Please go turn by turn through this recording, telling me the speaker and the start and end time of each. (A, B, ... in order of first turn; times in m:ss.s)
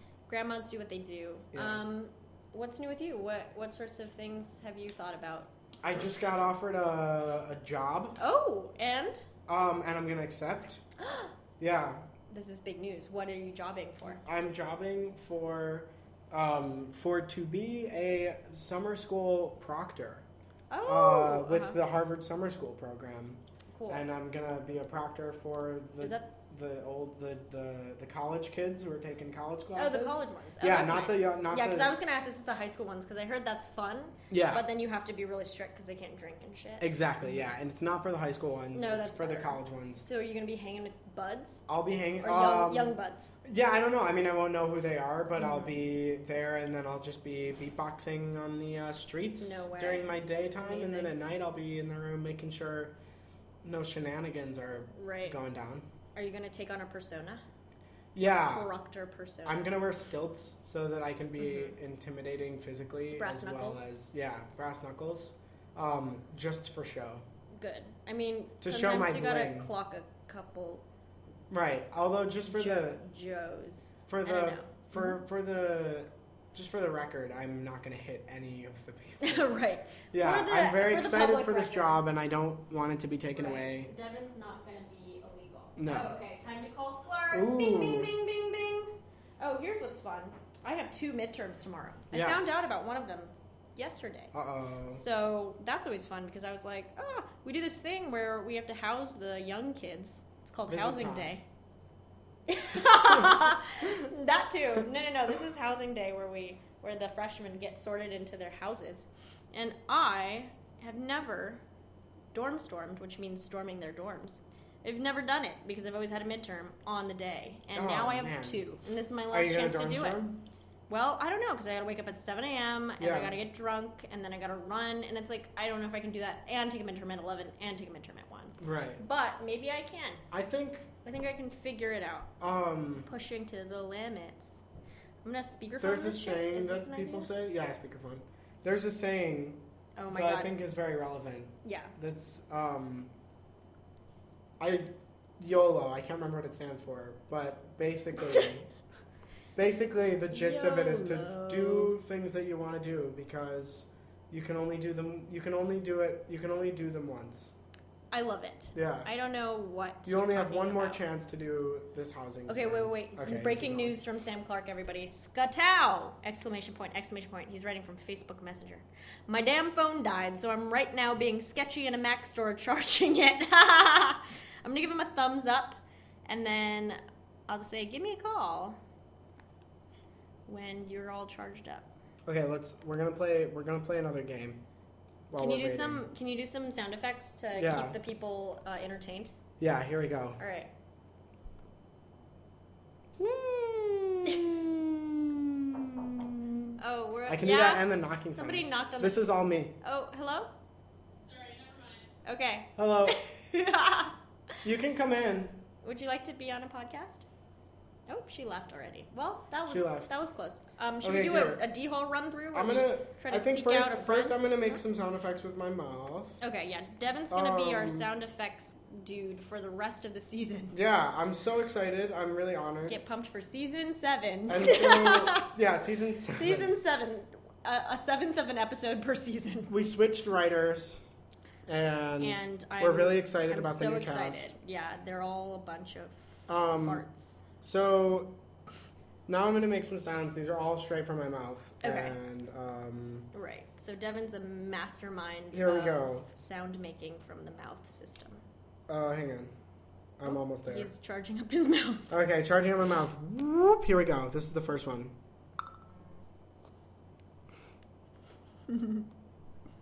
0:00.3-0:05.5 A
0:01.5-0:01.8 B
0:05.8-0:08.2 B
0:08.2-0:09.3 A
0:09.5-0:10.8 B
0:11.0-0:11.3 A
0:11.6-0:12.0 B
0:12.3-0:14.2 A
0:14.1-0:20.2 B
0:20.7-0:21.8 A
0:20.8-0:31.9 B
0:23.7-0:24.0 A
0:26.0-0:26.3 A
0:29.7-0:37.4 A
0:34.3-0:34.6 B
0:36.8-0:40.1 B
0:38.7-0:41.6 A
0:41.7-0:53.0 B
0:42.2-0:43.3 A
0:45.4-0:45.7 A
0:49.4-0:51.1 A
0:53.6-0:55.8 B
0:54.9-0:55.4 A
0:56.1-0:57.4 A
0:58.1-0:58.7 B
0:58.5-0:59.6 A
0:59.4-1:07.2 B
1:01.4-1:01.7 A
1:03.1-1:03.9 A
1:07.6-1:10.8 A
1:08.6-1:09.7 B
1:11.5-1:13.0 B
1:12.5-1:15.2 A
1:14.1-1:19.5 B
1:19.2-1:22.0 A
1:20.1-1:23.9 B
1:23.3-1:34.3 A
1:25.8-1:26.2 B
1:27.3-1:28.1 B
1:32.1-1:32.4 B
1:34.3-1:35.0 B
1:34.9-1:41.4 A
1:40.7-1:41.4 B
1:42.5-1:51.6 A
1:43.0-1:44.0 B
1:52.3-2:00.2 A
1:57.7-1:58.6 B
1:59.3-2:00.4 B
2:00.9-2:10.2 A
2:03.0-2:03.4 B
2:08.6-2:09.0 B
2:10.3-2:10.9 B
2:11.0-2:12.3 A
2:12.4-2:13.1 B
2:13.0-2:14.6 A
2:15.2-2:17.3 A
2:15.8-2:19.6 B
2:20.0-2:20.5 A
2:20.1-2:23.1 B
2:21.6-2:21.9 A
2:24.6-2:28.7 B
2:29.5-2:37.6 B
2:30.3-2:31.9 A
2:38.1-2:41.0 A
2:38.7-2:39.1 B
2:40.0-2:44.0 B
2:42.5-2:58.8 A
3:00.5-3:01.9 A
3:02.2-3:04.6 B
3:05.3-3:06.1 B
3:05.4-3:09.3 A
3:07.5-3:08.0 B
3:09.6-3:10.4 B
3:10.4-3:10.7 A
3:13.2-3:16.7 B
3:16.8-3:20.5 A
3:17.3-3:19.7 B
3:21.3-3:24.6 A
3:22.8-3:23.2 B
3:24.6-3:25.6 B
3:25.8-3:27.2 A
3:28.1-3:34.8 A
3:29.7-3:30.2 B
3:31.0-3:31.6 B
3:32.5-3:36.4 B
3:36.4-3:40.8 A
3:37.3-3:38.1 B
3:40.7-3:43.0 B
3:42.9-3:45.5 A
3:44.5-3:46.7 B
3:46.3-3:49.7 A
3:49.7-3:51.0 B
3:51.7-3:54.5 B
3:52.2-3:57.4 A
3:56.5-3:57.0 B
3:57.6-3:58.3 B
3:59.3-4:03.3 B
4:01.8-4:02.2 A
4:03.3-4:08.4 A
4:05.5-4:06.2 B
4:08.9-4:09.5 B
4:10.2-4:10.9 B
4:10.2-4:12.1 A
4:12.1-4:15.1 B
4:18.7-4:19.0 A